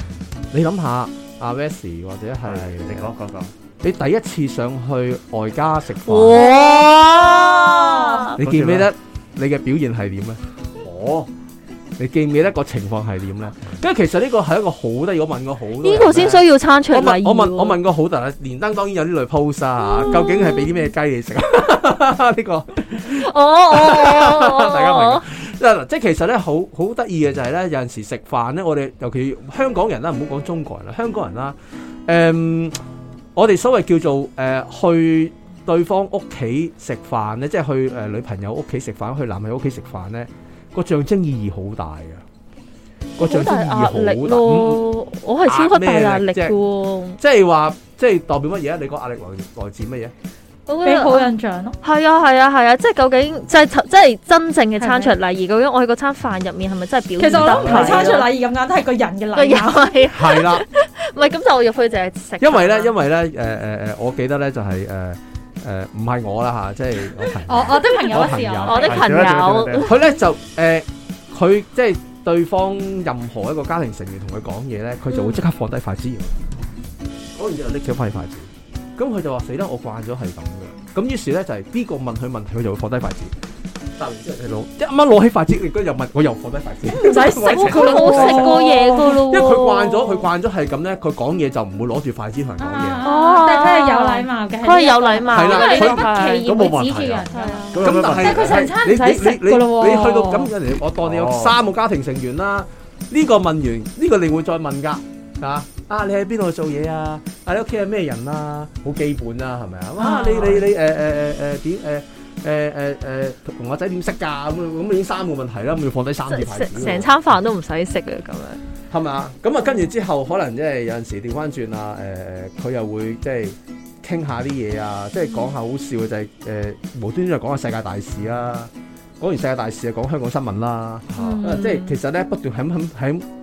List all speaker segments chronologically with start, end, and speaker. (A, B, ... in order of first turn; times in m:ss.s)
0:00.5-0:03.1 A
0:02.4-0:03.5 B
0:03.8-0:06.5 A
0:06.0-0:08.4 C
0:07.1-0:08.3 D
0:08.4-0:10.4 A
0:08.4-0:08.9 B
0:10.8-0:11.3 B
0:12.0-0:32.8 A
0:15.8-0:17.8 C
0:19.9-0:20.8 C
0:23.1-0:25.2 C
0:33.3-0:42.2 A
0:43.2-0:44.8 A
0:43.2-0:47.2 C
0:45.4-0:46.6 A
0:47.2-0:50.1 A
0:50.7-0:51.3 C
0:50.8-0:51.8 D
0:51.8-0:58.3 C
0:54.8-0:55.1 D
0:57.2-1:00.0 D
0:57.3-0:58.2 B
0:59.3-1:02.9 C
1:00.1-1:00.6 A
1:02.4-1:09.2 A
1:07.4-1:08.9 D
1:08.6-1:10.0 C
1:08.8-1:09.9 B
1:09.8-1:16.4 A
1:15.1-1:15.4 C
1:17.3-1:23.3 A
1:24.0-1:33.0 A
1:26.9-1:29.2 D
1:27.4-1:30.3 C
1:32.6-1:40.5 D
1:33.0-1:36.5 C
1:35.3-1:36.1 A
1:36.4-1:38.7 B
1:37.3-1:37.8 C
1:37.8-1:57.1 A
1:41.0-1:41.6 B
1:50.0-1:50.6 C
1:56.3-1:58.6 C
1:58.9-2:13.2 A
2:11.1-2:11.5 B
2:11.1-2:12.0 C